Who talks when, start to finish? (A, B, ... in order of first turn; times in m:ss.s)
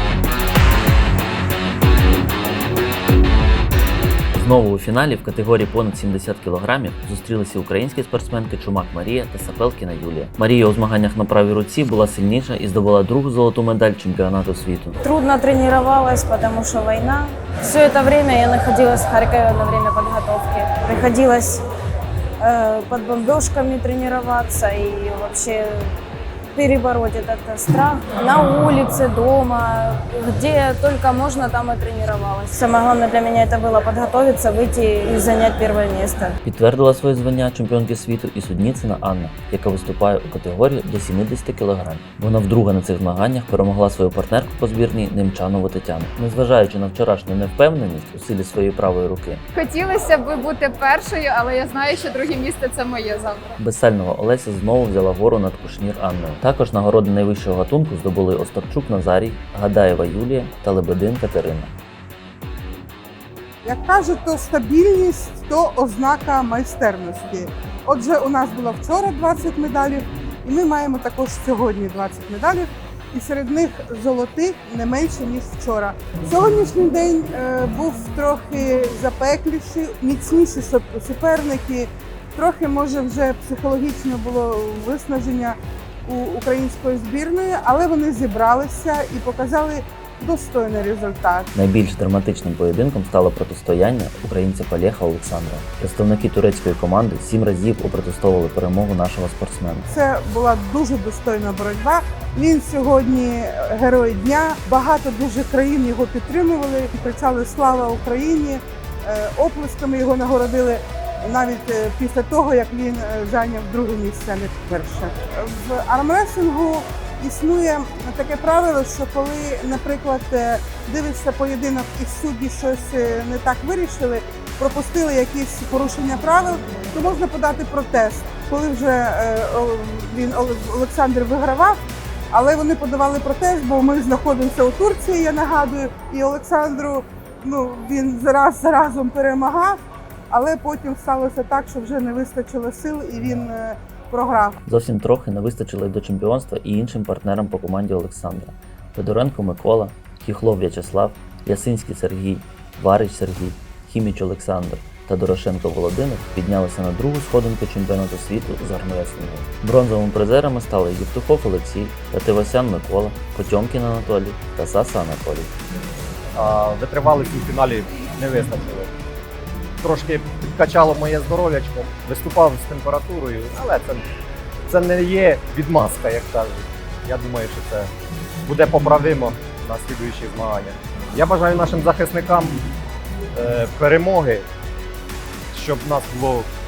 0:04.3-0:15.0 A
0:15.0-0:21.6 B
0:22.4-0:26.0 B
0:26.5-0:36.3 B
0:36.4-0:49.4 A
0:49.6-0:53.6 C
0:53.6-1:01.7 A
1:03.6-1:31.5 D
1:31.6-1:39.9 A
1:39.9-2:11.8 D
2:12.3-2:19.8 D
2:20.3-2:24.6 D
2:24.7-2:45.5 A
2:46.4-2:48.9 E
2:49.8-2:54.0 E
2:54.7-2:57.9 E
2:58.4-3:02.6 E
3:03.4-3:04.5 E
3:05.5-3:06.5 E